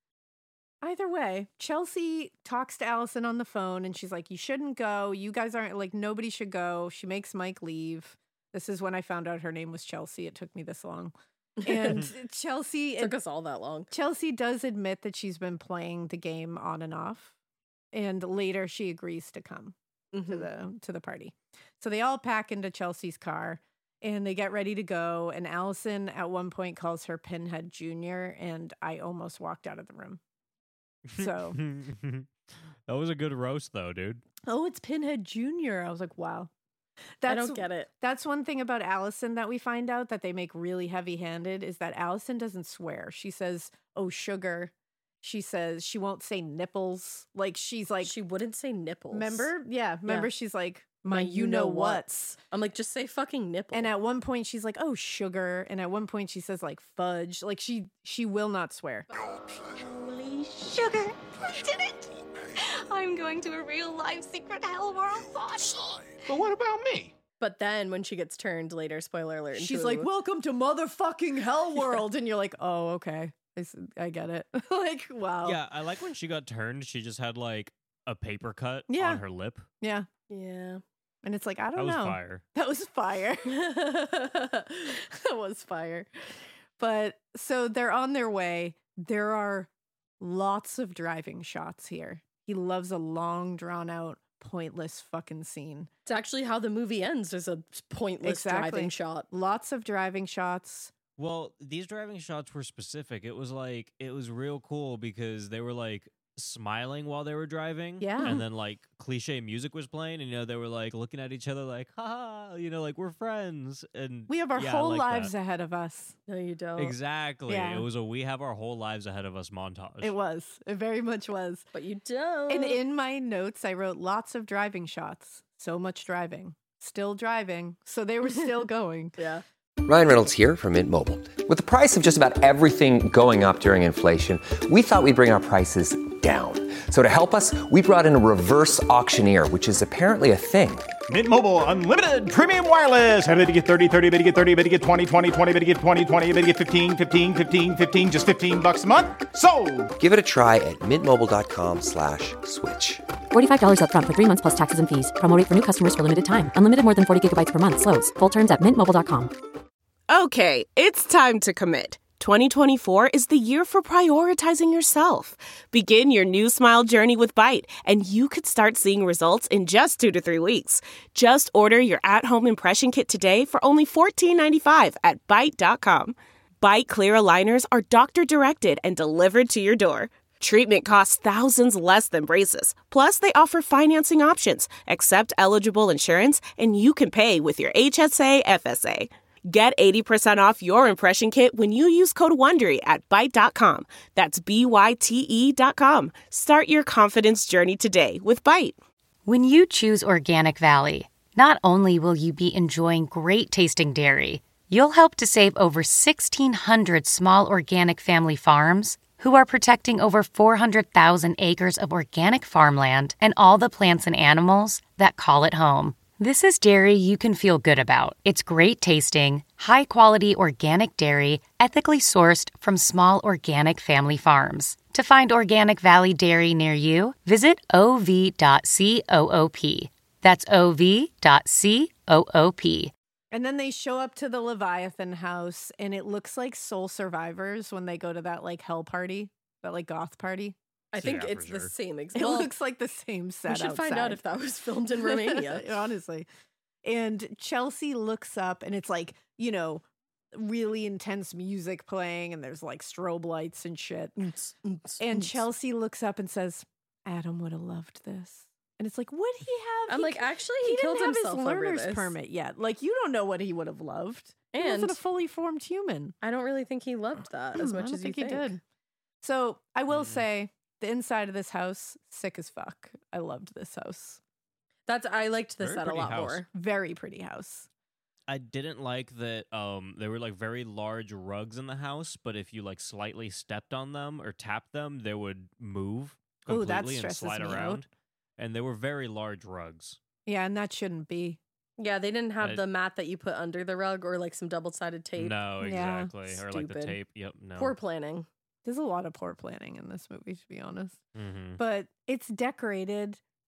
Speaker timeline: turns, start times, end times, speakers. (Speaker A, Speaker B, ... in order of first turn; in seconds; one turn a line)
Speaker A: 0.8-11.1
Speaker B: 11.6-12.1
Speaker A: 11.6-13.1
Speaker B: 13.0-13.9
Speaker A: 13.9-17.3
Speaker A: 17.9-19.7
Speaker B: 20.1-20.5
Speaker A: 20.2-30.2
Speaker C: 31.1-32.3
Speaker A: 31.2-31.6
Speaker C: 32.9-34.2
Speaker A: 34.5-36.5
Speaker A: 37.2-48.1
Speaker B: 37.2-37.9
Speaker B: 48.0-49.5
Speaker A: 49.1-52.4
Speaker B: 51.0-53.9
Speaker A: 53.7-59.1
Speaker D: 59.8-66.0
Speaker E: 66.2-67.1
Speaker B: 67.4-70.1
Speaker A: 69.5-75.6
Speaker C: 75.4-79.7
Speaker A: 78.9-79.2
Speaker A: 79.8-80.1
Speaker B: 80.3-80.8
Speaker A: 81.2-83.5
Speaker C: 81.8-82.4
Speaker B: 83.5-85.0
Speaker A: 84.9-86.1
Speaker A: 86.8-95.9
Speaker B: 96.0-99.3
Speaker A: 98.2-100.9
Speaker C: 101.2-115.3
Speaker A: 108.0-108.4
Speaker A: 114.3-116.2
Speaker B: 116.3-116.9
Speaker C: 116.8-120.1
Speaker A: 117.5-117.9
Speaker A: 120.0-121.7
Speaker B: 121.7-122.8
Speaker A: 122.5-129.2
Speaker B: 129.2-129.4
Speaker F: 129.8-140.9
Speaker E: 141.1-149.9
Speaker F: 150.0-153.0
Speaker G: 153.3-159.3
Speaker H: 160.1-198.8
Speaker I: 199.2-232.9
Speaker A: 233.3-240.6
Speaker B: 240.9-242.5
Speaker C: 240.9-241.7
Speaker A: 242.1-244.2
Speaker B: 243.5-245.8
Speaker A: 245.0-246.3
Speaker A: 246.8-254.2
Speaker B: 254.2-255.4
Speaker A: 255.0-266.1
Speaker B: 259.9-262.1
Speaker B: 264.5-265.0
Speaker B: 266.2-268.6
Speaker A: 267.6-268.6
Speaker A: 269.2-274.2
Speaker C: 269.9-270.2
Speaker B: 274.9-276.4
Speaker C: 275.6-276.4
Speaker A: 276.5-277.7
Speaker C: 278.3-287.9
Speaker A: 286.5-287.8
Speaker C: 288.4-290.0
Speaker A: 290.2-291.4
Speaker B: 291.8-295.4
Speaker C: 292.4-292.6
Speaker C: 295.2-297.8
Speaker A: 295.6-296.1
Speaker B: 296.4-297.0
Speaker B: 297.6-298.3
Speaker A: 298.6-301.0
Speaker C: 301.1-301.6
Speaker A: 301.6-303.2